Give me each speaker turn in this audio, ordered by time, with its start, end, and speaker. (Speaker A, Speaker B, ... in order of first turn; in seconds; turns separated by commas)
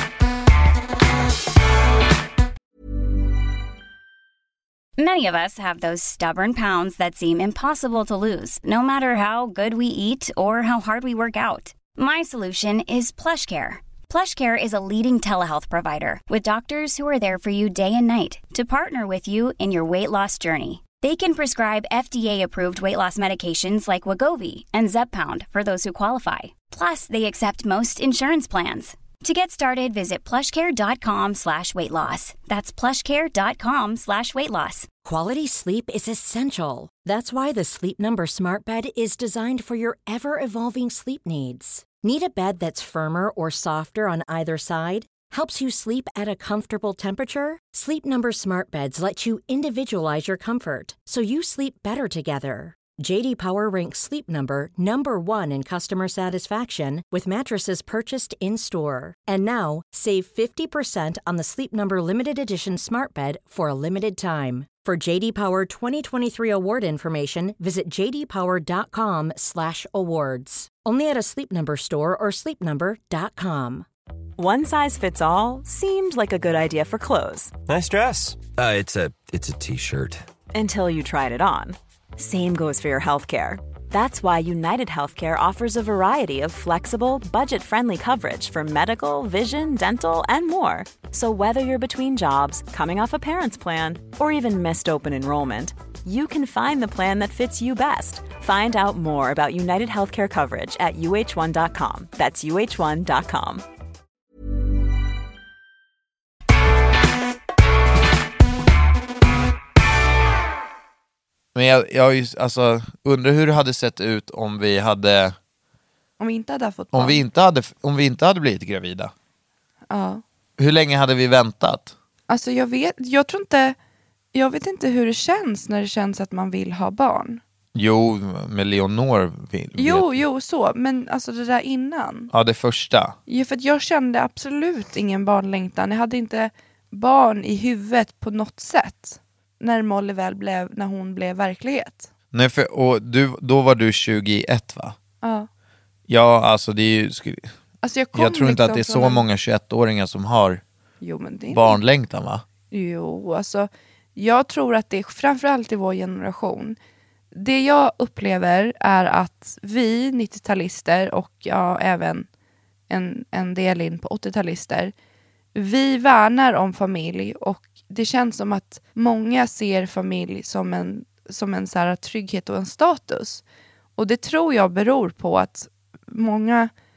Speaker A: 5.0-34.9, Speaker B: 35.0-73.9, Speaker C: 74.4-77.5, Speaker D: 77.8-80.1, Speaker C: 80.5-103.6, Speaker E: 111.5-115.4, Speaker F: 116.2-117.2, Speaker E: 116.9-119.1, Speaker F: 119.9-120.2, Speaker E: 120.6-121.9, Speaker F: 122.3-123.8, Speaker F: 124.3-127.4, Speaker E: 127.7-130.2, Speaker F: 129.8-132.3, Speaker E: 132.3-133.2, Speaker F: 133.3-142.1, Speaker E: 142.3-144.9, Speaker F: 145.2-145.5, Speaker E: 146.1-147.5, Speaker F: 147.8-149.2, Speaker E: 148.1-150.6, Speaker F: 151.0-151.8, Speaker E: 151.5-152.4, Speaker F: 152.7-156.8, Speaker F: 157.3-162.3, Speaker F: 162.9-164.9, Speaker F: 165.6-173.4, Speaker F: 174.0-176.7